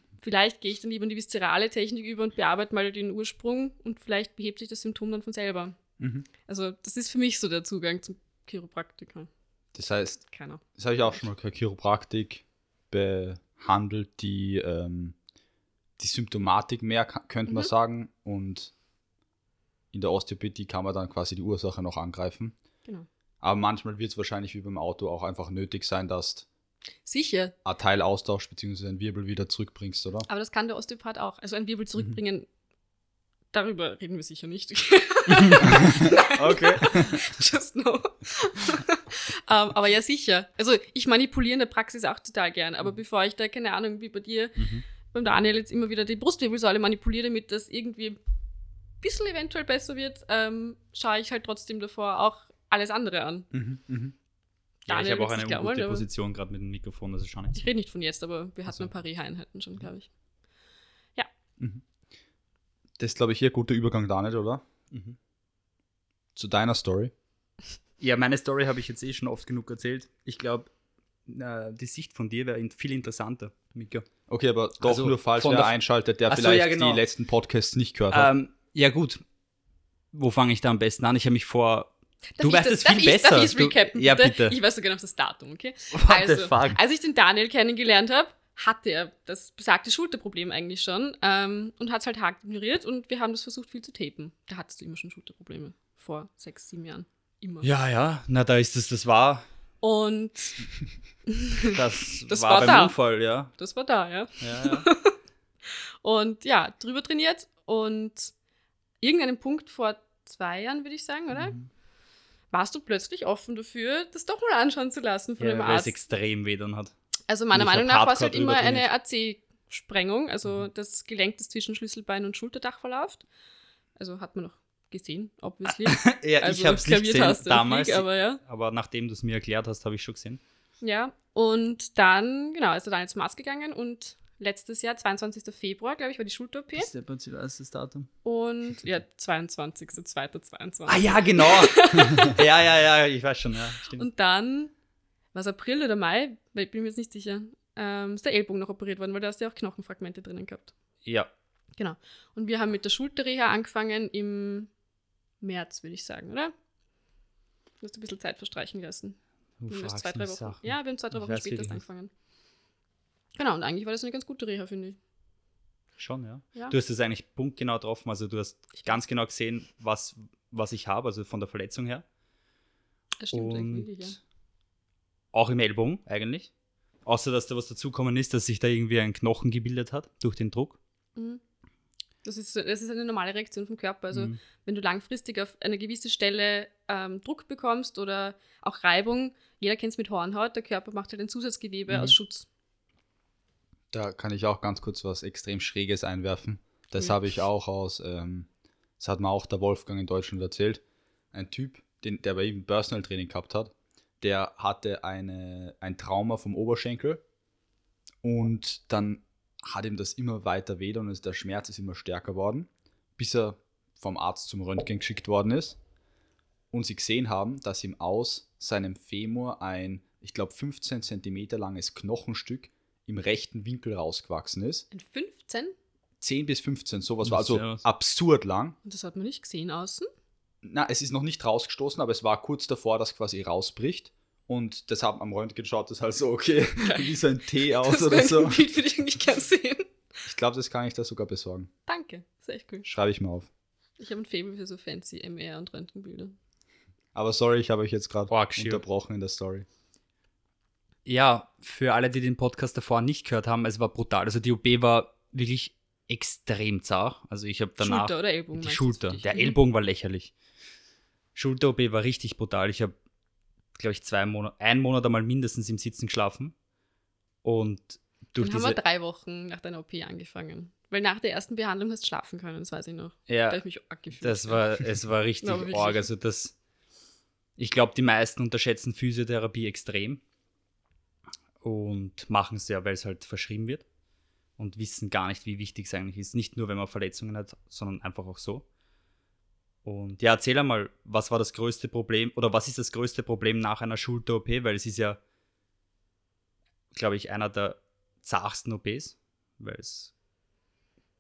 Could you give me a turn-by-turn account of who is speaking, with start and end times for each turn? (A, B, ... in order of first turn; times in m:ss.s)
0:00.2-0:05.8 A
0:06.0-0:06.3 B
0:06.4-0:09.3 A
0:09.8-0:10.2 B
0:10.3-0:10.6 A
0:10.8-0:15.2 B
0:16.0-0:18.7 B
0:19.9-0:22.5 B
0:23.4-0:26.4 B
0:27.0-0:27.5 A
0:27.6-0:30.3 B
0:30.3-0:32.5 A
0:33.5-0:48.2 A
0:35.7-0:37.2 B
0:44.6-0:44.8 C
0:49.0-0:53.5 A
0:53.5-0:54.1 B
0:54.9-0:57.7 C
0:54.9-0:56.0 A
0:57.6-1:00.1 A
1:03.0-1:04.6 B
1:04.9-1:05.2 C
1:06.4-1:07.1 B
1:08.0-1:10.7 C
1:11.2-1:14.1 C
1:14.3-1:18.3 B
1:14.8-1:17.0 C
1:18.1-1:19.2 C
1:20.1-1:24.6 C
1:22.4-1:37.7 A
1:25.9-1:26.8 C
1:37.6-1:39.4 C
1:39.8-1:40.7 A
1:41.3-1:48.3 A
1:41.7-1:43.5 C
1:44.4-1:44.9 C
1:49.0-1:51.6 A
1:51.4-1:51.6 C
1:52.5-1:55.9 A
1:55.4-1:56.9 C
1:57.3-2:03.2 A
1:57.5-1:58.9 C
2:04.0-2:08.4 A
2:05.8-2:10.4 C
2:10.8-2:16.9 A
2:16.8-2:18.1 C
2:18.2-2:22.4 A
2:20.9-2:24.1 C
2:23.9-2:24.7 A
2:25.3-2:30.7 A
2:31.0-2:31.3 C
2:31.8-2:34.7 A
2:35.4-2:36.5 A
2:37.8-2:39.2 A
2:39.6-2:41.8 C
2:39.7-2:42.1 A
2:43.4-2:45.0 A
2:46.0-2:52.0 C
2:53.2-2:54.2 A
2:53.3-2:54.1 C
2:55.3-2:56.5 C
2:57.0-3:00.8 C
3:01.2-3:01.4 A
3:02.2-3:12.5 A
3:04.1-3:04.4 C
3:13.9-3:18.5 B
3:19.0-3:20.8 B
3:21.3-3:27.2 B
3:28.2-3:35.8 B
3:36.7-3:44.9 B
3:44.9-3:45.8 A
3:46.2-3:48.8 B
3:47.2-3:47.8 C
3:48.8-3:50.1 A
3:50.6-3:58.6 B
3:56.8-3:57.1 A
3:57.7-3:59.9 A
4:00.2-4:01.7 B
4:01.9-4:02.9 A
4:02.9-4:03.5 B
4:04.0-4:06.3 A
4:07.1-4:09.6 B
4:08.3-4:08.8 C
4:11.0-4:20.3 C
4:17.8-4:19.6 A
4:21.4-4:22.9 C
4:23.8-4:26.5 C
4:27.4-4:28.8 C
4:28.4-4:34.6 A
4:33.3-4:33.6 C
4:34.2-4:36.5 C
4:35.4-4:36.0 A
4:37.6-4:40.2 C
4:41.6-4:43.8 C
4:44.6-4:48.6 C
4:49.8-4:55.2 C
4:56.9-5:00.1 C